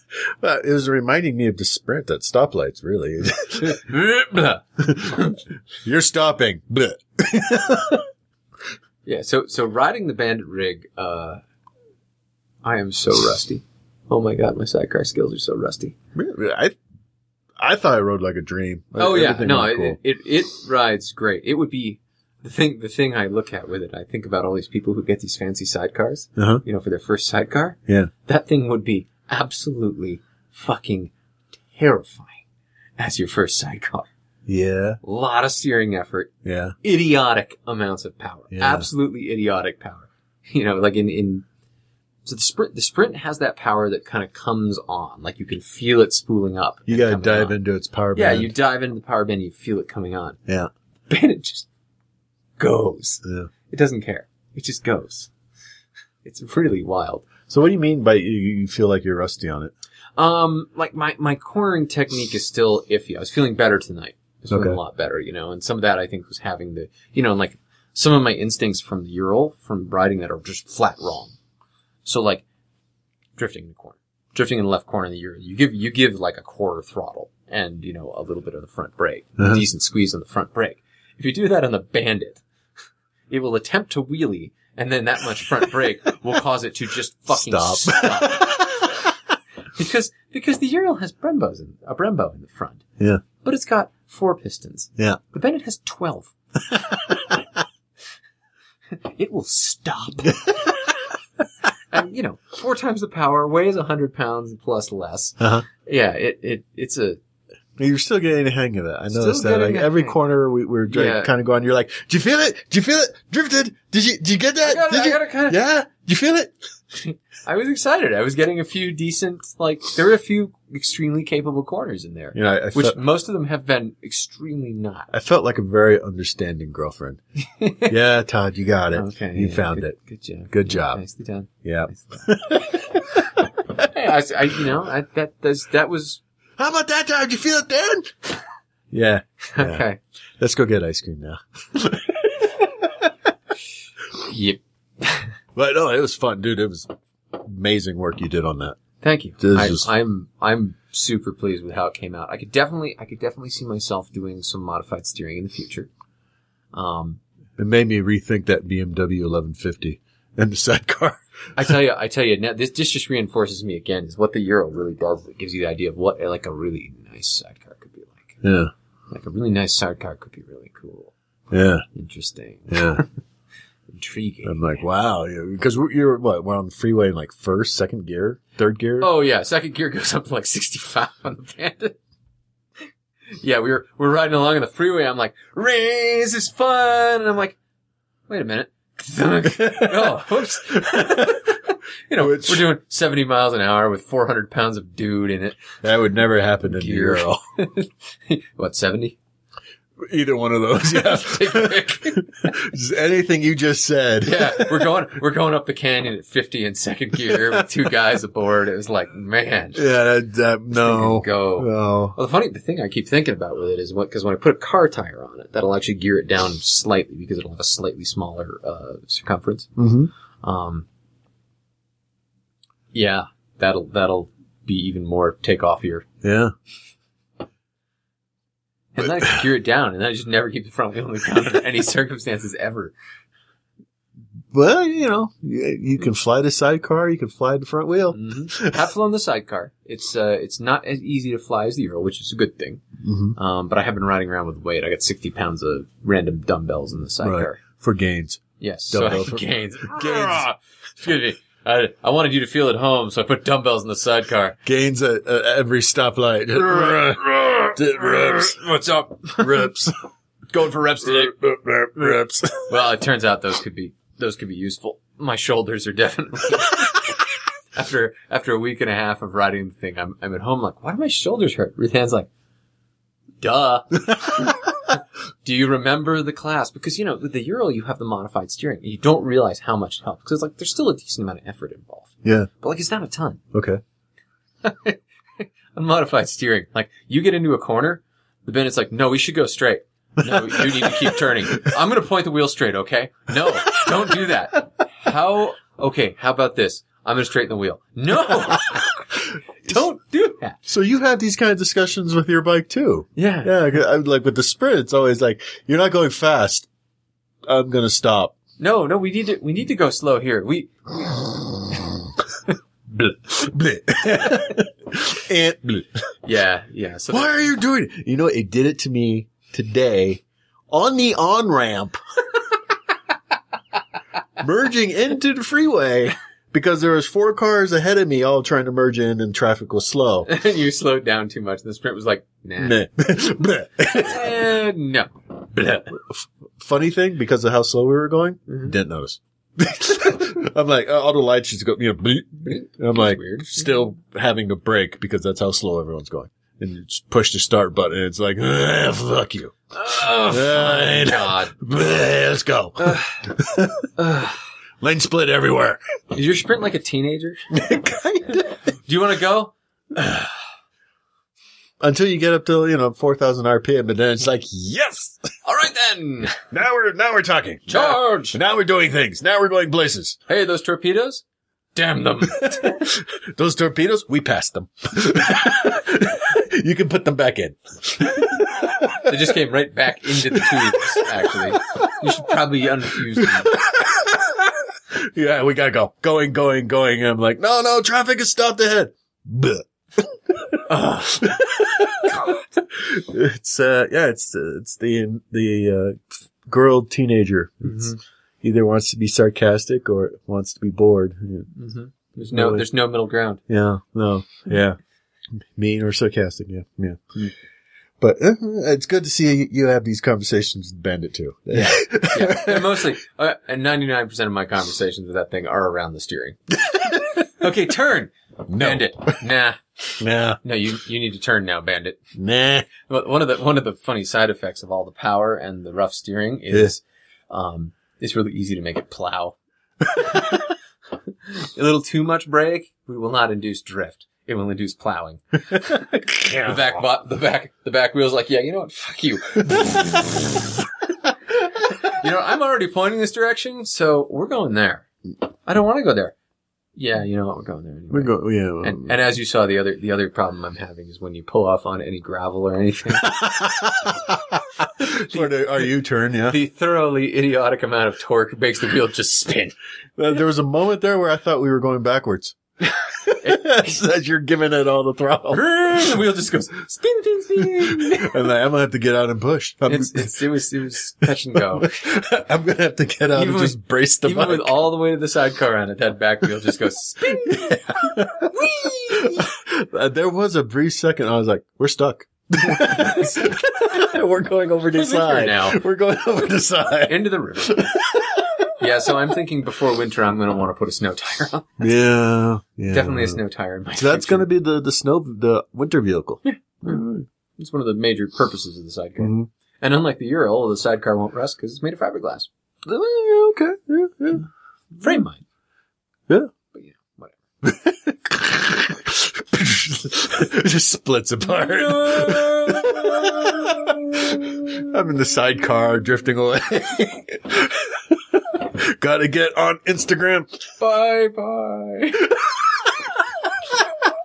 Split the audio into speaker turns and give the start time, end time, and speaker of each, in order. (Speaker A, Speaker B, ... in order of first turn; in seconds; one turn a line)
Speaker A: 0.4-3.8
Speaker B: 3.6-5.3
Speaker A: 4.8-8.1
Speaker B: 9.0-11.4
Speaker B: 12.6-15.9
Speaker A: 16.1-16.8
Speaker A: 17.6-20.0
Speaker B: 19.0-31.1
Speaker A: 26.4-26.6
Speaker B: 31.7-32.4
Speaker B: 33.0-34.1
Speaker A: 34.5-35.0
Speaker B: 35.0-36.3
Speaker A: 36.4-36.8
Speaker B: 36.8-41.4
Speaker A: 38.5-38.9
Speaker B: 42.2-47.5
Speaker A: 46.9-48.5
Speaker B: 48.1-50.4
Speaker B: 51.1-51.7
Speaker B: 52.6-55.3
Speaker A: 53.2-53.5
Speaker B: 56.2-57.3
Speaker A: 57.5-59.7
Speaker B: 60.2-71.3
Speaker A: 64.5-64.8
Speaker B: 72.0-72.4
Speaker B: 73.4-82.4
Speaker A: 79.4-79.6
Speaker B: 83.3-88.9
Speaker A: 87.3-89.1
Speaker B: 89.7-92.8
Speaker B: 93.4-96.3
Speaker A: 96.7-97.3
Speaker B: 98.9-100.8
Speaker A: 100.3-100.7
Speaker B: 101.9-107.2
Speaker A: 105.4-105.7
Speaker A: 107.8-116.5
Speaker B: 109.1-110.2
Speaker B: 110.9-111.3
Speaker B: 114.6-115.6
Speaker B: 116.9-125.1
Speaker A: 122.3-123.0
Speaker A: 125.1-127.2
Speaker B: 127.6-127.9
Speaker A: 127.7-129.9
Speaker B: 128.9-132.3
Speaker A: 130.5-131.0
Speaker A: 131.6-133.2
Speaker B: 133.8-136.2
Speaker A: 136.6-138.3
Speaker A: 138.9-139.8
Speaker B: 139.5-140.0
Speaker A: 140.4-142.7
Speaker B: 144.2-145.3
Speaker A: 145.5-148.8
Speaker B: 149.0-155.9
Speaker A: 149.4-149.9
Speaker B: 156.7-157.2
Speaker A: 157.6-161.2
Speaker B: 161.6-168.4
Speaker A: 168.4-168.7
Speaker B: 169.1-171.1
Speaker A: 171.5-171.8
Speaker B: 171.9-173.1
Speaker A: 172.7-173.0
Speaker B: 173.9-174.8
Speaker A: 174.4-179.1
Speaker B: 179.0-182.0
Speaker B: 183.3-187.6
Speaker B: 188.3-195.6
Speaker A: 189.6-191.4
Speaker A: 192.2-192.7
Speaker A: 195.8-197.4
Speaker B: 196.6-199.2
Speaker A: 200.0-204.8
Speaker B: 200.9-202.5
Speaker B: 204.2-209.8
Speaker A: 209.7-212.2
Speaker B: 210.7-219.7
Speaker A: 219.8-220.1
Speaker B: 220.4-220.9
Speaker B: 222.9-226.1
Speaker A: 226.2-226.5
Speaker B: 228.9-232.9
Speaker A: 234.5-238.8
Speaker B: 238.1-242.8
Speaker A: 243.0-243.3
Speaker B: 243.3-247.6
Speaker A: 247.2-250.4
Speaker B: 248.6-254.6
Speaker A: 254.6-258.6
Speaker B: 256.6-259.7
Speaker A: 259.3-259.9
Speaker B: 260.5-261.3
Speaker A: 261.0-262.8
Speaker B: 262.7-267.1
Speaker B: 267.7-272.3
Speaker B: 273.4-283.4
Speaker A: 274.1-274.4
Speaker A: 282.2-282.5
Speaker A: 283.5-283.8
Speaker B: 284.6-299.0
Speaker A: 290.2-291.7
Speaker B: 299.6-300.6
Speaker A: 300.6-306.7
Speaker B: 303.1-303.5
Speaker A: 307.5-308.4
Speaker B: 308.6-311.8
Speaker A: 312.9-315.9
Speaker B: 316.2-317.5
Speaker A: 317.1-322.0
Speaker A: 324.4-330.3
Speaker B: 330.2-332.8
Speaker A: 332.6-334.2
Speaker B: 333.9-335.9
Speaker A: 335.9-353.9
Speaker B: 342.4-343.7
Speaker B: 349.7-351.5
Speaker B: 352.8-353.2
Speaker B: 354.0-354.4
Speaker A: 354.8-355.8
Speaker B: 356.1-357.4
Speaker A: 357.5-358.6
Speaker B: 358.4-360.3
Speaker A: 361.8-365.3
Speaker B: 365.4-366.4
Speaker A: 366.5-370.2
Speaker B: 367.7-368.4
Speaker B: 370.3-371.2
Speaker B: 371.7-372.8
Speaker A: 372.4-379.2
Speaker B: 379.0-383.5
Speaker A: 380.3-381.0
Speaker A: 383.1-401.5
Speaker B: 390.7-391.3
Speaker B: 397.6-398.0
Speaker B: 401.5-403.4
Speaker A: 402.3-402.6
Speaker A: 403.5-404.8
Speaker A: 405.6-407.3
Speaker A: 408.0-412.9
Speaker B: 411.5-416.4
Speaker A: 416.7-417.2
Speaker B: 417.4-419.6
Speaker A: 418.5-419.2
Speaker A: 420.0-420.4
Speaker B: 420.4-422.0
Speaker A: 422.2-422.7
Speaker B: 422.8-429.4
Speaker B: 429.9-430.4
Speaker B: 431.1-440.4
Speaker A: 436.1-436.6
Speaker A: 439.6-439.8
Speaker B: 441.9-444.9
Speaker B: 445.4-446.1
Speaker B: 446.8-453.1
Speaker A: 447.9-448.9
Speaker A: 453.0-456.4
Speaker B: 454.8-455.7
Speaker B: 456.3-459.5
Speaker A: 460.0-462.4
Speaker A: 463.0-465.4
Speaker B: 465.3-468.2
Speaker A: 467.6-474.6
Speaker B: 469.7-471.7
Speaker B: 473.1-479.2
Speaker A: 477.0-488.5
Speaker B: 482.6-483.2
Speaker B: 484.7-485.6
Speaker B: 486.9-487.7
Speaker B: 488.6-491.6
Speaker A: 491.6-493.2
Speaker B: 492.7-494.3
Speaker A: 493.7-497.1
Speaker B: 496.2-496.8
Speaker B: 497.4-502.3
Speaker A: 499.0-499.3
Speaker A: 502.6-504.2
Speaker B: 504.8-505.2
Speaker B: 506.5-507.2
Speaker A: 507.4-520.4
Speaker B: 511.2-514.5
Speaker B: 520.6-522.1